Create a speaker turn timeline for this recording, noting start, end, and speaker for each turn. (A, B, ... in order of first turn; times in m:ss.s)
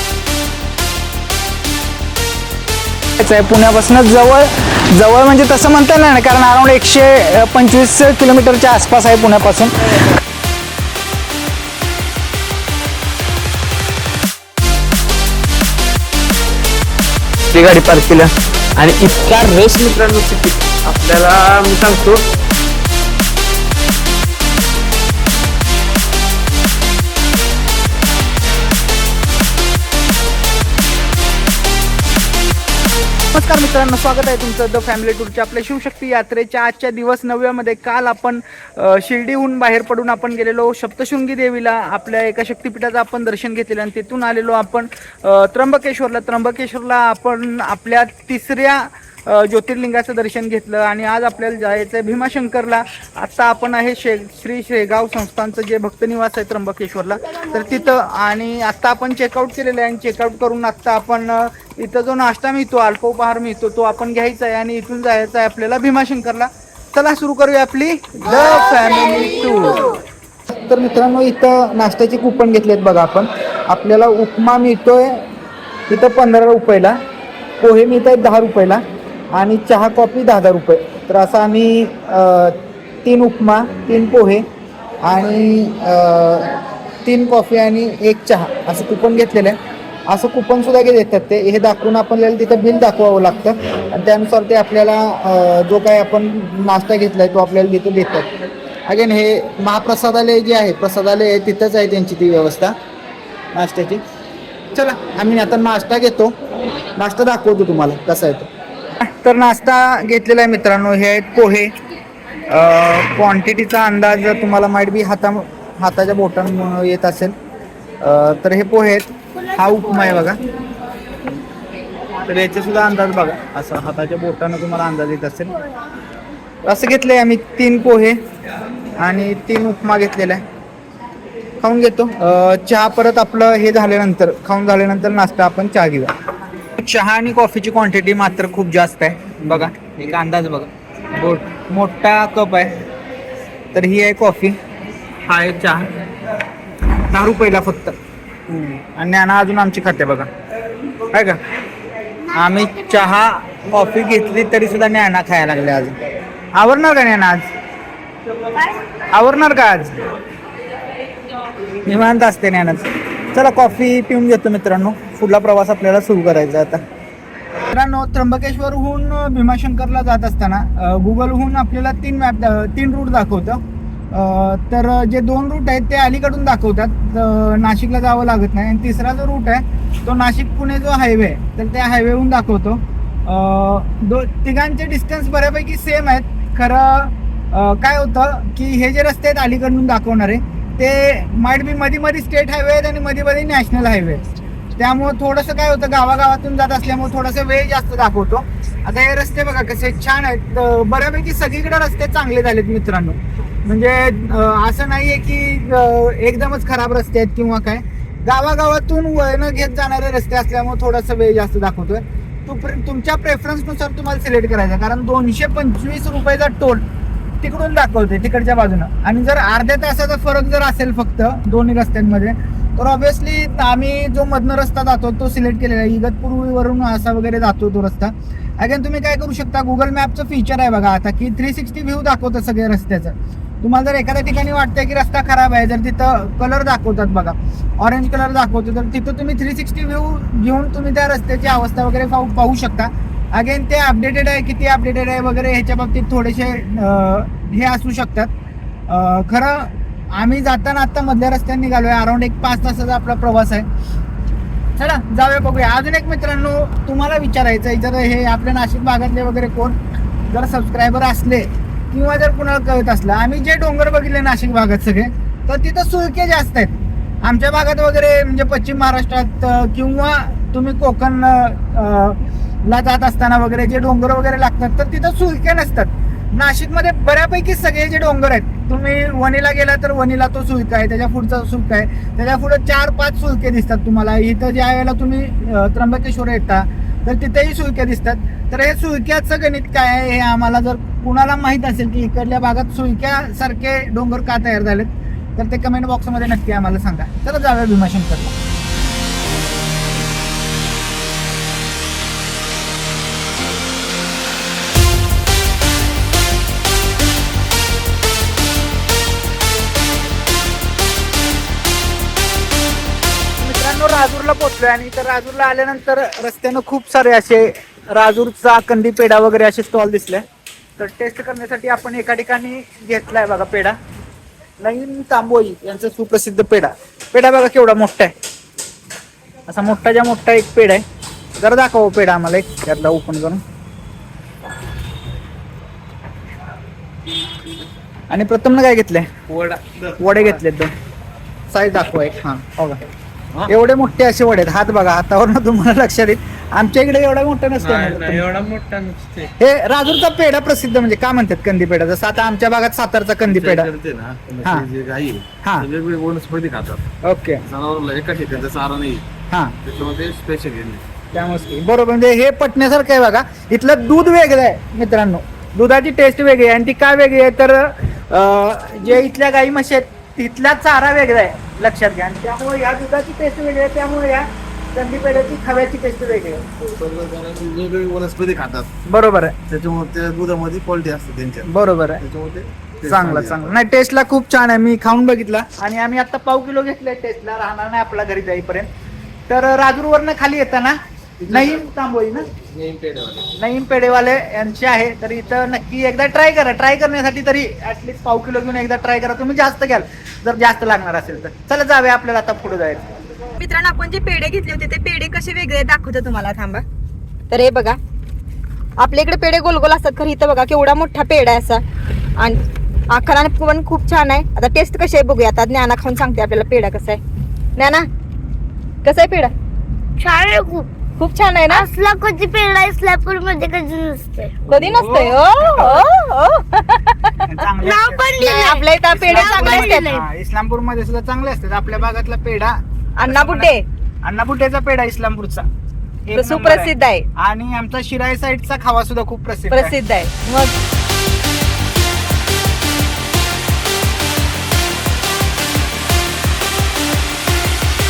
0:03.2-0:09.7 A
0:17.5-0:22.3 B
0:33.3-1:10.0 A
1:10.5-1:15.3 A
1:15.9-1:17.0 A
1:17.6-1:24.4 A
1:25.0-1:38.3 A
1:38.9-1:42.8 A
1:43.5-1:44.0 A
1:44.7-1:46.3 A
1:47.0-1:48.5 A
1:49.0-1:51.7 A
1:52.5-1:57.3 A
1:58.0-2:00.4 A
2:02.2-2:05.5 A
2:06.6-2:08.2 A
2:09.0-2:10.4 A
2:11.6-2:16.1 A
2:16.8-2:22.8 A
2:23.7-2:24.6 A
2:25.3-2:25.9 A
2:27.1-2:28.0 A
2:28.5-2:30.3 A
2:31.1-2:31.4 A
2:32.3-2:36.0 A
2:36.6-2:37.5 A
2:39.1-2:39.9 A
2:41.8-2:46.8 A
2:47.7-2:53.6 A
2:54.1-3:36.8 A
3:37.4-4:08.3 A
4:08.9-4:13.7 A
4:14.8-4:19.8 A
4:20.3-4:58.4 A
5:13.4-5:20.2 A
5:20.8-5:23.8 A
5:24.6-5:28.1 A
5:29.5-5:30.8 A
5:31.4-5:33.4 A
5:38.1-5:39.1 A
5:39.3-5:39.6 B
5:40.0-5:40.7 A
5:41.5-5:42.8 A
5:43.5-5:48.3 A
5:47.6-5:49.3 B
5:49.4-5:53.7 A
5:53.2-5:56.8 C
5:57.0-5:57.4 A
5:57.5-5:59.0 C
5:59.6-6:00.8 C
6:01.1-6:16.4 A
6:16.6-6:18.7 C
6:18.9-6:19.4 A
6:19.5-6:21.5 C
6:21.5-6:22.0 A
6:22.0-6:23.6 C
6:22.9-6:28.7 A
6:29.3-6:32.3 A
6:31.2-6:31.6 C
6:32.5-6:33.3 C
6:33.4-6:42.8 A
6:43.4-6:46.6 D
6:47.3-6:47.8 D
6:48.8-6:51.6 D
6:52.2-6:57.0 D
6:57.6-6:57.8 D
6:58.8-6:59.3 D
7:00.0-7:00.7 E
7:01.0-7:01.6 D
7:01.5-7:04.3 E
7:04.5-7:07.2 D
7:04.5-7:05.2 B
7:07.3-7:15.5 A
7:07.6-7:10.0 E
7:08.2-7:09.9 D
7:13.0-7:13.6 D
7:16.0-7:19.7 A
7:16.1-7:17.1 D
7:19.5-7:20.5 D